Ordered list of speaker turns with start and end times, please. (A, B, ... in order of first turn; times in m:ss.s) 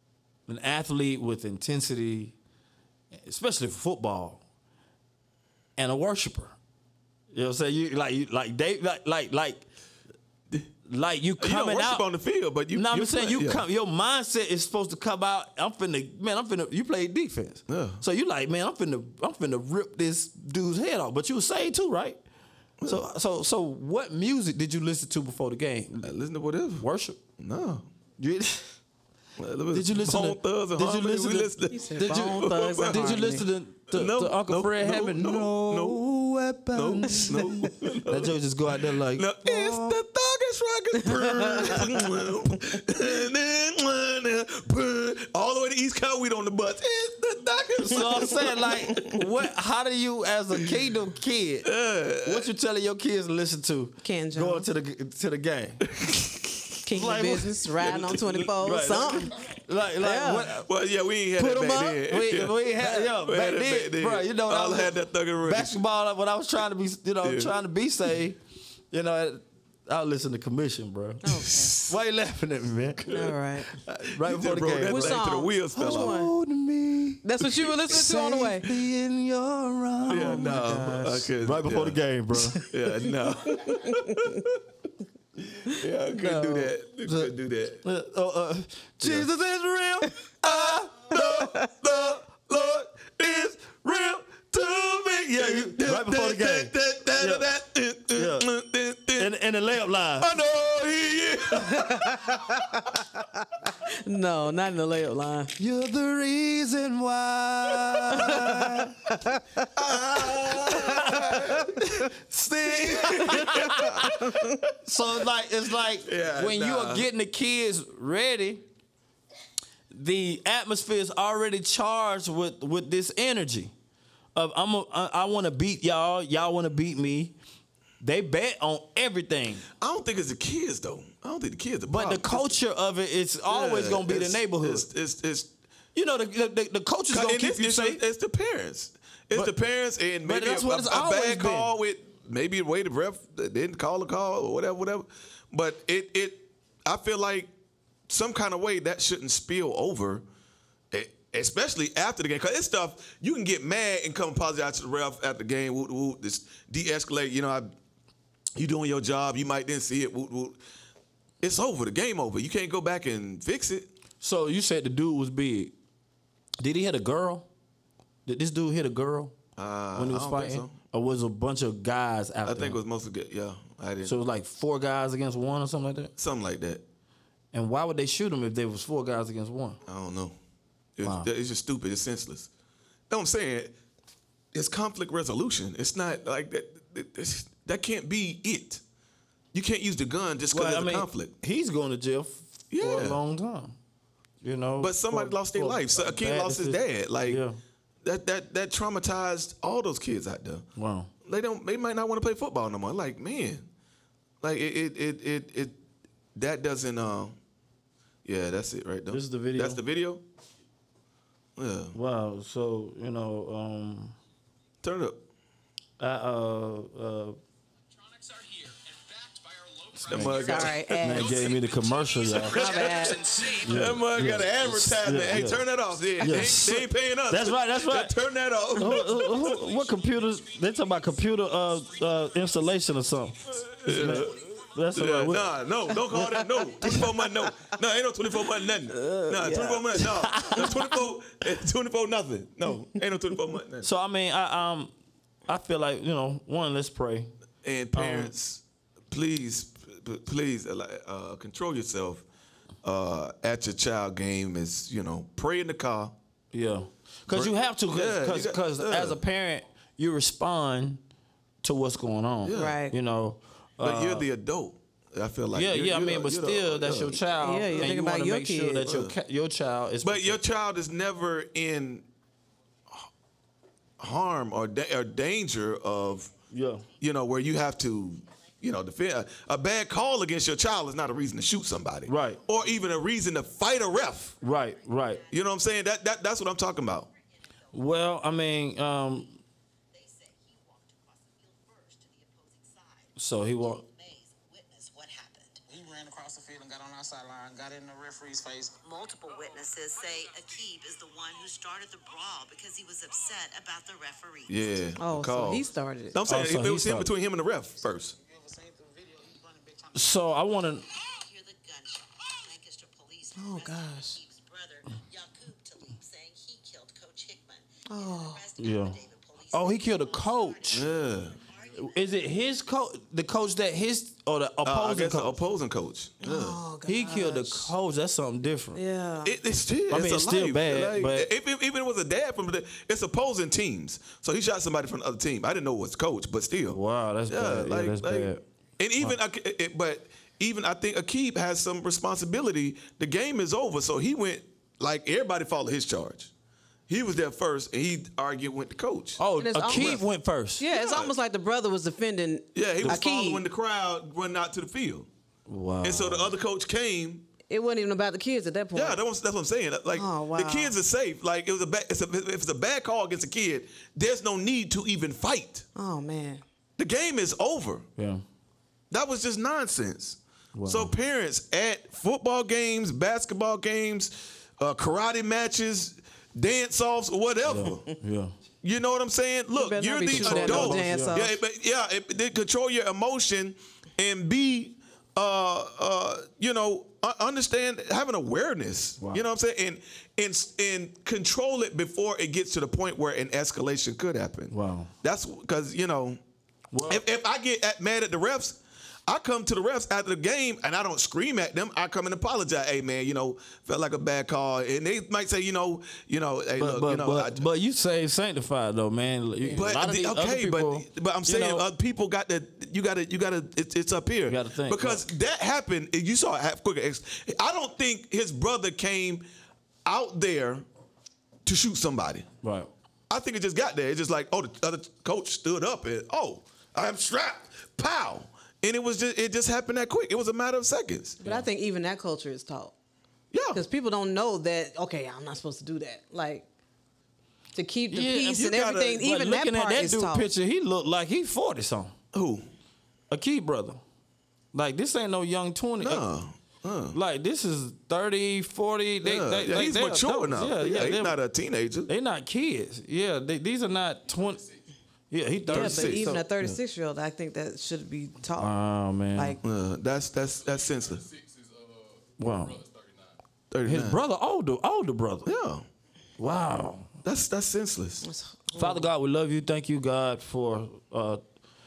0:00.5-0:02.4 A
0:03.2-0:04.4 A
0:05.8-0:06.6 A
0:07.3-0:09.6 A
0:10.9-0:12.0 A
0:11.4-0:13.6 B
0:12.7-0:22.2 A
0:17.7-0:18.0 B
0:22.9-0:26.1 A
0:26.0-0:26.9 B
0:26.8-0:27.2 A
0:27.4-0:27.9 B
0:28.2-0:28.8 A
0:29.4-0:33.3 B
0:29.7-0:40.0 A
0:31.7-0:33.5 C
0:33.9-0:36.0 B
0:36.7-0:38.3 B
0:39.1-0:49.2 B
0:41.0-0:41.8 C
0:47.8-0:51.7 A
0:51.6-0:52.5 B
0:52.2-0:55.9 A
0:54.0-0:54.7 C
0:56.0-0:56.3 B
0:56.8-0:59.4 C
0:56.9-0:57.5 A
0:57.8-0:58.5 B
0:58.6-1:00.7 A
1:00.0-1:00.6 C
1:00.6-1:05.8 B
1:01.4-1:02.0 C
1:02.1-1:08.4 A
1:07.2-1:07.5 B
1:08.9-1:13.2 A
1:11.2-1:11.8 C
1:11.5-1:11.9 B
1:13.1-1:13.3 B
1:13.1-1:13.8 C
1:13.8-1:15.2 A
1:14.1-1:16.2 B
1:14.9-1:16.3 C
1:15.8-1:17.3 A
1:17.2-1:18.7 C
1:17.9-1:22.7 A
1:20.1-1:22.0 B
1:22.6-1:24.6 B
1:23.5-1:24.4 C
1:25.6-1:27.8 B
1:26.2-1:31.0 A
1:29.0-1:29.3 B
1:30.4-1:39.3 B
1:31.1-1:31.7 C
1:33.2-1:37.5 A
1:38.1-1:38.5 A
1:39.2-1:40.3 A
1:40.2-1:42.7 B
1:41.5-1:45.5 C
1:45.6-1:49.0 A
1:47.8-1:48.4 B
1:48.1-1:49.7 C
1:49.8-1:51.9 B
1:50.7-1:51.9 C
1:50.7-1:54.3 A
1:52.7-1:54.6 B
1:53.1-1:54.6 C
1:54.8-1:58.6 A
1:56.0-1:57.1 B
1:59.9-2:03.7 A
2:04.4-2:07.4 A
2:08.0-2:09.6 A
2:09.7-2:12.6 B
2:11.9-2:14.9 A
2:13.5-2:15.5 B
2:15.9-2:18.0 A
2:17.1-2:27.5 B
2:20.2-2:21.7 A
2:28.1-2:30.2 B
2:30.9-2:37.7 B
2:38.6-2:40.6 B
2:41.4-2:43.9 B
2:44.2-2:45.7 A
2:46.6-2:47.5 A
2:48.3-2:49.4 A
2:49.6-2:50.8 B
2:50.0-2:52.8 A
2:52.4-2:54.2 B
2:54.0-2:56.1 A
2:56.2-2:56.8 B
2:57.5-2:59.8 A
2:59.8-3:00.4 B
3:01.0-3:02.5 B
3:01.0-3:01.3 A
3:03.1-3:03.7 B
3:04.5-3:08.8 B
3:09.5-3:11.3 B
3:10.5-3:13.8 A
3:12.7-3:13.2 B
3:14.4-3:17.6 A
3:14.8-3:17.4 B
3:18.0-3:20.7 B
3:20.8-3:21.1 A
3:21.2-3:23.7 B
3:24.4-3:25.8 B
3:26.4-3:27.4 B
3:28.2-3:30.2 B
3:29.1-3:29.8 A
3:31.6-3:32.0 B
3:31.9-3:34.2 A
3:34.8-3:35.2 B
3:36.0-3:37.4 A
3:37.9-3:44.0 D
3:40.1-3:41.2 B
3:40.1-3:40.4 A
3:40.3-3:41.5 C
3:41.0-3:42.6 A
3:42.3-3:49.6 B
3:42.5-3:43.3 C
3:43.6-3:48.2 A
3:48.8-3:55.6 A
3:49.5-3:50.0 D
3:53.6-3:54.4 B
3:54.9-4:03.9 B
3:56.1-3:57.5 C
3:58.9-4:00.8 C
4:00.1-4:00.8 A
4:03.8-4:04.9 A
4:05.5-4:07.3 A
4:07.6-4:12.3 B
4:07.9-4:08.3 A
4:12.8-4:16.2 B
4:16.5-4:21.0 A
4:17.3-4:19.2 B
4:21.6-4:24.3 A
4:22.4-4:22.8 B
4:22.5-4:23.0 C
4:23.8-4:27.9 B
4:25.5-4:30.4 A
4:27.4-4:28.9 C
4:28.8-4:29.2 B
4:30.0-4:32.0 B
4:34.0-4:36.3 B
4:36.5-4:36.9 A
4:37.0-4:44.3 B
4:42.1-4:42.4 A
4:43.9-4:45.4 E
4:44.4-4:45.2 A
4:45.3-4:47.1 B
4:47.1-4:48.4 E
4:47.7-4:49.4 A
4:49.9-4:55.6 E
4:53.2-4:53.8 A
4:55.7-4:58.8 D
4:58.8-5:05.0 E
4:59.3-5:00.3 D
5:04.5-5:08.2 B
5:05.0-5:06.2 C
5:06.3-5:07.1 A
5:08.1-5:10.3 D
5:09.9-5:10.9 A
5:10.8-5:22.4 E
5:13.4-5:14.2 C
5:17.9-5:18.4 C
5:18.6-5:19.0 A
5:19.5-5:20.9 A
5:20.7-5:21.4 B
5:21.8-5:25.4 A
5:24.6-5:26.6 B
5:26.2-5:27.7 C
5:26.9-5:28.8 A
5:28.8-5:29.4 C
5:29.2-5:46.3 B
5:29.9-5:31.3 A
5:36.7-5:38.4 A
5:46.9-5:49.2 B
5:49.2-5:50.6 A
5:49.4-5:50.0 C
5:50.6-5:53.4 C
5:50.7-5:51.1 B
5:52.6-5:55.1 B
5:55.5-5:56.3 A
5:55.8-5:57.3 B
5:57.5-5:59.0 C
5:58.7-6:05.7 B
5:59.9-6:00.8 C
6:05.8-6:06.4 C
6:06.8-6:07.9 B
6:08.0-6:08.2 A
6:08.9-6:17.8 B
6:10.6-6:10.9 A
6:17.4-6:18.3 A
6:18.6-6:36.2 B
6:19.5-6:21.4 C
6:20.1-6:21.2 A
6:29.0-6:29.2 A
6:34.5-6:34.9 A
6:36.7-6:37.0 A
6:36.9-6:47.5 B
6:46.6-6:51.7 A
6:49.5-6:59.2 B
6:54.3-6:55.0 A
6:59.8-7:00.6 B
7:01.4-7:02.3 B
7:02.4-7:02.7 A
7:03.1-7:11.2 B
7:11.2-7:12.7 C
7:13.3-7:13.6 B
7:13.5-7:16.5 C
7:17.6-7:20.3 C
7:17.9-7:21.9 A
7:18.4-7:19.0 B
7:22.1-7:22.4 B
7:23.1-7:23.8 A
7:24.5-7:26.0 A
7:25.8-7:27.0 B
7:26.9-7:31.2 A
7:29.0-7:31.9 B
7:31.9-7:34.4 A
7:35.1-7:36.3 A
7:35.5-7:36.2 B
7:35.5-7:38.6 C
7:38.4-7:39.4 A
7:39.4-7:41.1 B
7:42.2-7:42.6 A
7:43.5-7:44.0 B
7:43.6-7:45.3 A
7:45.2-7:45.6 B
7:46.2-7:46.9 A
7:47.0-7:48.1 B
7:48.0-7:48.9 C
7:48.6-7:51.2 A